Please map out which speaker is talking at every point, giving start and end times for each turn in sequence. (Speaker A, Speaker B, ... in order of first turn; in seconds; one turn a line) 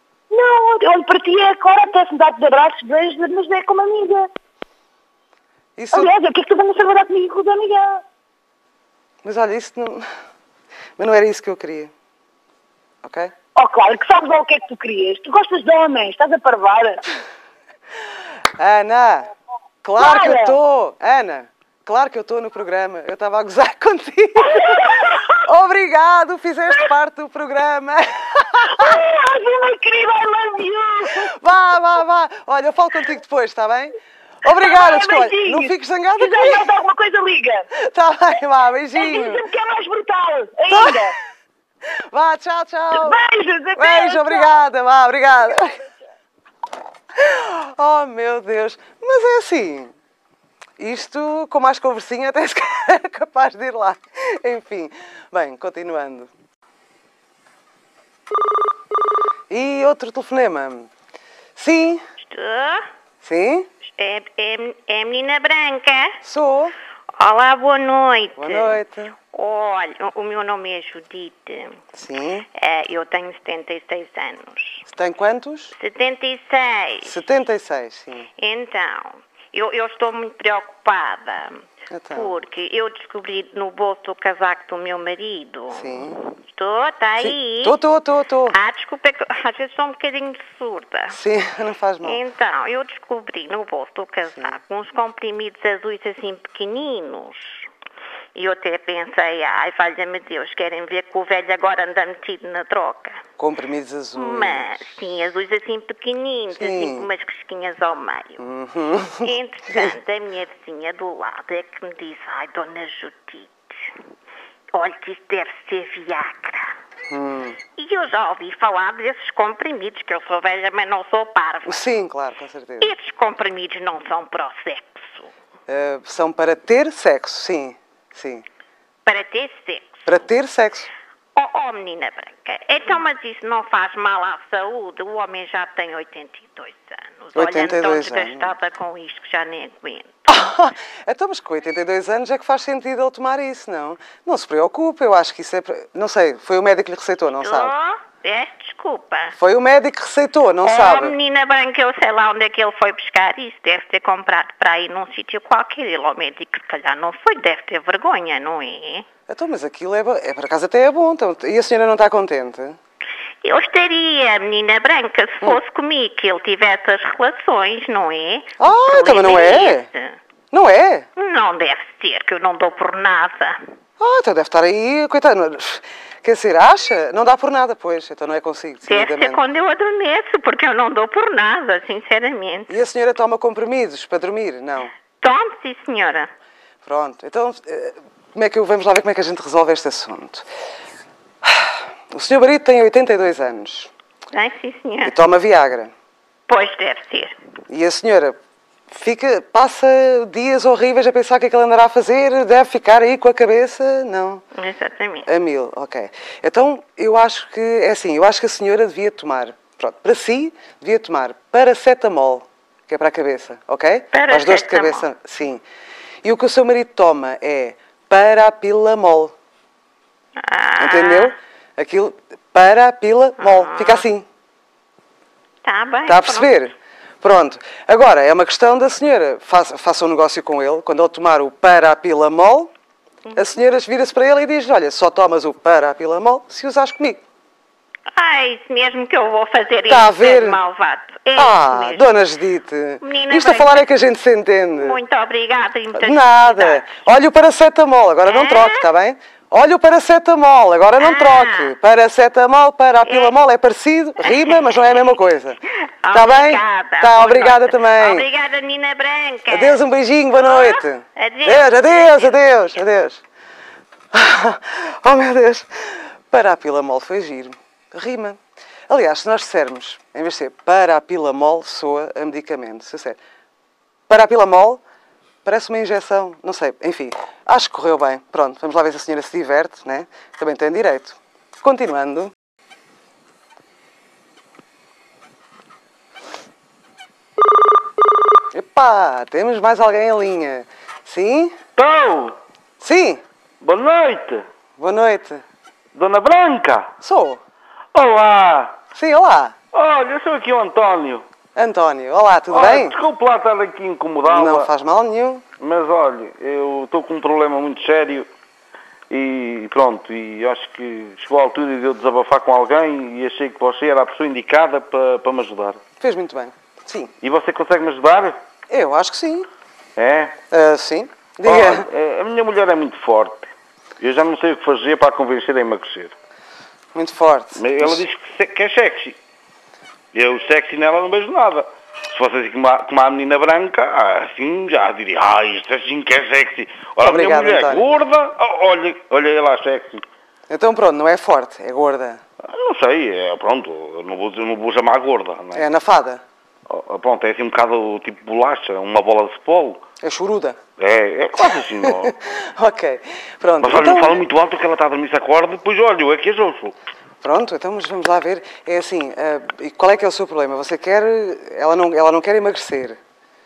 Speaker A: 0.3-4.3
Speaker B: 5.8-6.1
Speaker A: 5.9-8.0
Speaker B: 9.2-10.1
Speaker B: 11.0-11.9
Speaker B: 13.0-13.3
Speaker A: 13.6-17.0
Speaker B: 18.6-19.3
Speaker B: 19.8-29.0
Speaker A: 20.0-20.6
Speaker A: 24.4-25.4
Speaker A: 28.6-31.4
Speaker B: 31.2-36.7
Speaker A: 34.5-37.7
Speaker B: 37.8-39.4
Speaker A: 39.0-41.1
Speaker B: 40.7-41.1
Speaker B: 42.1-43.2
Speaker A: 43.0-44.5
Speaker B: 43.8-45.8
Speaker B: 47.1-50.0
Speaker B: 50.8-56.3
Speaker B: 59.5-60.9
Speaker B: 61.6-62.0
Speaker C: 62.2-62.9
Speaker B: 63.2-63.7
Speaker C: 63.9-66.2
Speaker B: 66.2-66.7
Speaker C: 67.2-68.8
Speaker B: 68.4-69.1
Speaker C: 69.3-71.8
Speaker B: 71.9-72.5
Speaker C: 72.5-74.8
Speaker B: 74.9-75.8
Speaker C: 75.8-77.2
Speaker B: 77.0-78.3
Speaker C: 78.4-87.8
Speaker B: 81.9-82.3
Speaker B: 85.7-86.2
Speaker B: 87.2-88.6
Speaker C: 88.5-91.2
Speaker B: 91.1-92.2
Speaker C: 92.0-97.7
Speaker C: 98.3-103.2
Speaker B: 103.4-104.9
Speaker C: 104.2-108.4
Speaker B: 106.5-107.1
Speaker B: 108.4-110.0
Speaker C: 109.2-113.9
Speaker C: 114.7-116.7
Speaker B: 117.1-117.6
Speaker C: 117.8-121.8
Speaker B: 121.6-122.9
Speaker C: 122.8-125.3
Speaker B: 125.7-128.4
Speaker C: 129.1-130.2
Speaker B: 130.1-130.9
Speaker C: 131.3-140.2
Speaker B: 137.3-138.5
Speaker B: 140.3-147.7
Speaker C: 147.4-149.3
Speaker B: 149.3-151.1
Speaker C: 150.6-159.1
Speaker B: 159.3-162.8
Speaker C: 163.4-170.2
Speaker B: 168.6-169.9
Speaker B: 170.5-171.1
Speaker C: 171.2-173.6
Speaker B: 174.0-179.4
Speaker C: 178.9-182.8
Speaker B: 182.7-184.9
Speaker C: 185.2-186.3
Speaker B: 186.8-190.5
Speaker B: 191.4-193.9
Speaker C: 194.3-195.2
Speaker B: 195.0-195.9
Speaker C: 196.5-197.3
Speaker B: 197.7-198.4
Speaker B: 198.9-204.4
Speaker C: 204.6-205.3
Speaker B: 205.3-215.6
Speaker C: 214.1-215.0
Speaker B: 216.2-219.3
Speaker C: 220.4-221.3
Speaker B: 220.8-224.2
Speaker C: 223.4-224.0
Speaker C: 225.6-226.6
Speaker B: 226.1-232.7
Speaker C: 233.2-233.5
Speaker B: 233.3-237.2
Speaker C: 238.1-242.1
Speaker B: 239.9-240.6
Speaker B: 241.4-245.0
Speaker C: 243.0-243.9
Speaker C: 244.8-246.9
Speaker B: 245.9-255.6
Speaker C: 248.3-248.9
Speaker C: 251.0-251.7
Speaker C: 253.1-253.3
Speaker C: 256.0-259.8
Speaker B: 256.1-258.2
Speaker B: 259.5-263.2
Speaker C: 260.4-262.4
Speaker B: 264.1-273.2
Speaker B: 274.1-274.8
Speaker B: 275.4-282.3
Speaker B: 288.5-291.6
Speaker D: 291.8-292.4
Speaker B: 292.8-293.2
Speaker D: 293.6-294.4
Speaker B: 294.8-295.4
Speaker D: 295.9-296.9
Speaker B: 297.0-297.4
Speaker D: 297.9-298.8
Speaker B: 298.9-299.6
Speaker D: 299.7-301.2
Speaker B: 301.6-302.9
Speaker D: 302.5-304.7
Speaker B: 304.3-305.4
Speaker D: 305.6-308.3
Speaker D: 309.1-315.8
Speaker B: 316.0-317.1
Speaker D: 317.2-318.4
Speaker B: 318.7-319.5
Speaker D: 320.0-320.4
Speaker B: 320.5-321.9
Speaker D: 321.4-323.5
Speaker D: 324.0-326.1
Speaker B: 326.9-328.0
Speaker D: 327.6-329.2
Speaker D: 330.1-340.0
Speaker B: 337.0-337.9
Speaker B: 340.5-342.2
Speaker D: 342.4-345.6
Speaker B: 345.5-346.2
Speaker D: 346.7-349.9
Speaker B: 350.0-350.6
Speaker D: 350.8-352.3
Speaker B: 351.4-354.2
Speaker D: 353.6-356.8
Speaker B: 357.2-363.0